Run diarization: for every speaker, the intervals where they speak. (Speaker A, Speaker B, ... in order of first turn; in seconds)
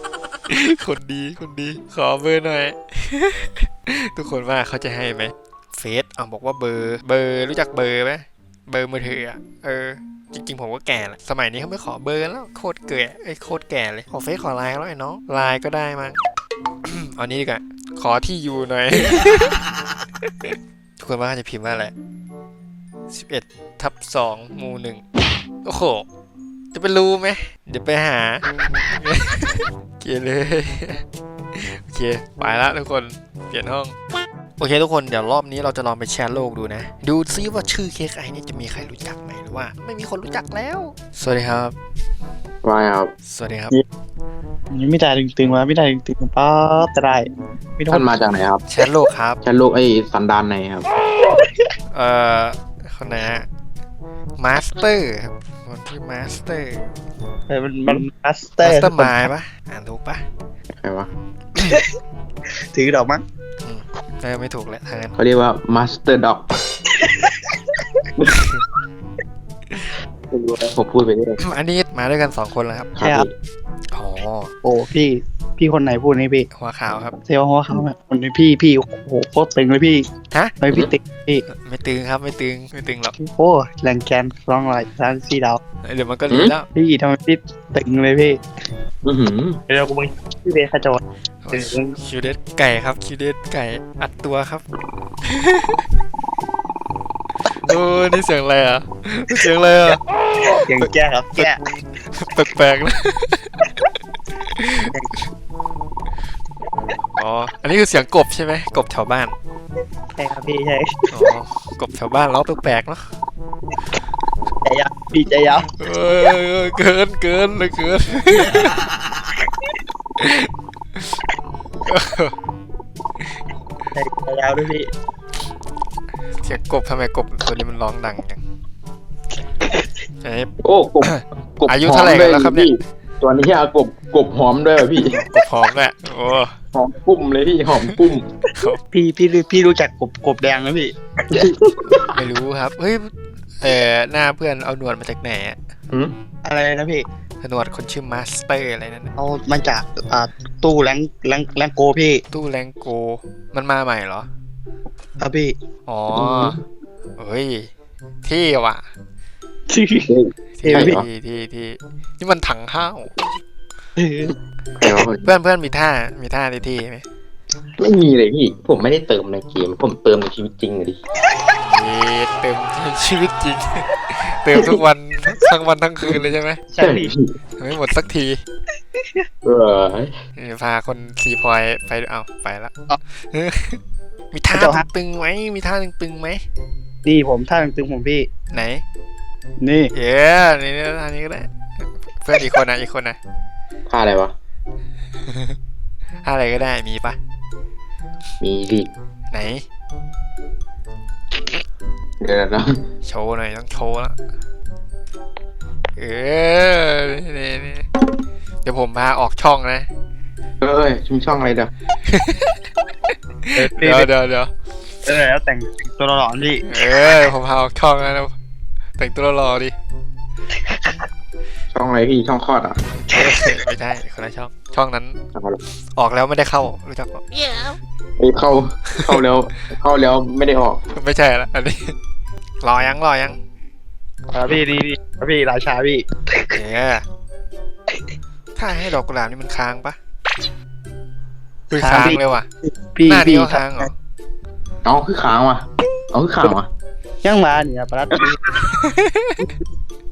Speaker A: 0.5-16.2, 16.8-19.6, 20.4-21.9, 23.1-25.0, 25.6-26.1, 26.7-34.0, 34.6-41.8, 43.3-43.8, 48.7-49.4, 51.9-53.5, 54.4-56.9, 58.6-60.2, 61.6-61.8, 63.6-65.2, 68.3-68.6, 71.4-72.9, 73.9-74.5, 76.5-77.2, 81.5-83.2, 85.8-86.7, 91.4-94.6, 95.2-95.8, 97.5-100.0, 100.8-103.8, 104.4-104.9, 107.2-109.4, 111.1-113.1, 115.7-118.9, 120.2-121.2, 121.8-122.4, 126.4-128.4, 130.2-132.7, 135.1-136.6, 138.5-138.8, 141.9-145.6, 147.4-149.1, 152.3-154.3, 155.9-156.6, 157.2-157.7, 158.2-158.9, 160.6-163.1, 165.2-167.1, 171.7-176.6, 177.6-178.4, 180.4-183.8, 184.3-186.4, 188.5-188.8, 189.9-193.2, 195.2-195.6, 196.2-197.2, 199.3-199.7, 203.0-204.2, 206.0-207.9, 208.6-209.9, 212.1-212.5, 213.5-214.5, 216.6-218.3, 219.0-219.8, 223.1-225.2, 225.9-227.8, 228.9-229.2, 230.9-232.0, 232.6-233.4, 236.5-237.1, 238.6-240.0, 241.7-242.5, 243.1-243.9, 248.7-249.4
Speaker B: 42.6-43.1, 47.9-48.6, 49.4-50.9, 60.8-61.1, 65.2-66.5, 70.3-71.4, 73.0-73.3, 86.3-86.5, 89.0-89.6, 130.6-135.2, 136.7-138.3, 156.1-156.6, 160.1-161.1, 164.8-165.2, 167.8-171.0, 176.8-177.3, 179.4-180.1, 193.9-194.3, 198.4-198.9, 202.2-202.7, 210.6-211.7, 221.7-222.8, 228.2-230.8, 244.8-246.7
Speaker C: 44.7-47.3, 47.8-48.1, 57.5-59.3, 62.7-63.2, 67.0-67.6, 74.6-76.5, 77.2-80.1, 80.6-81.4, 83.2-85.6, 86.7-88.4, 89.7-91.0, 91.5-92.0, 100.4-101.6, 110.1-111.2, 114.6-115.7, 124.0-124.9, 129.7-129.9, 138.9-142.0, 146.4-147.1, 149.2-152.2, 155.2-155.5, 159.7-160.1, 160.7-161.0, 164.0-164.3, 176.7-177.1, 184.5-184.8, 187.1-188.3, 189.6-189.9, 213.5-214.1, 215.1-216.7, 234.3-236.6, 241.8-243.9, 247.2-248.4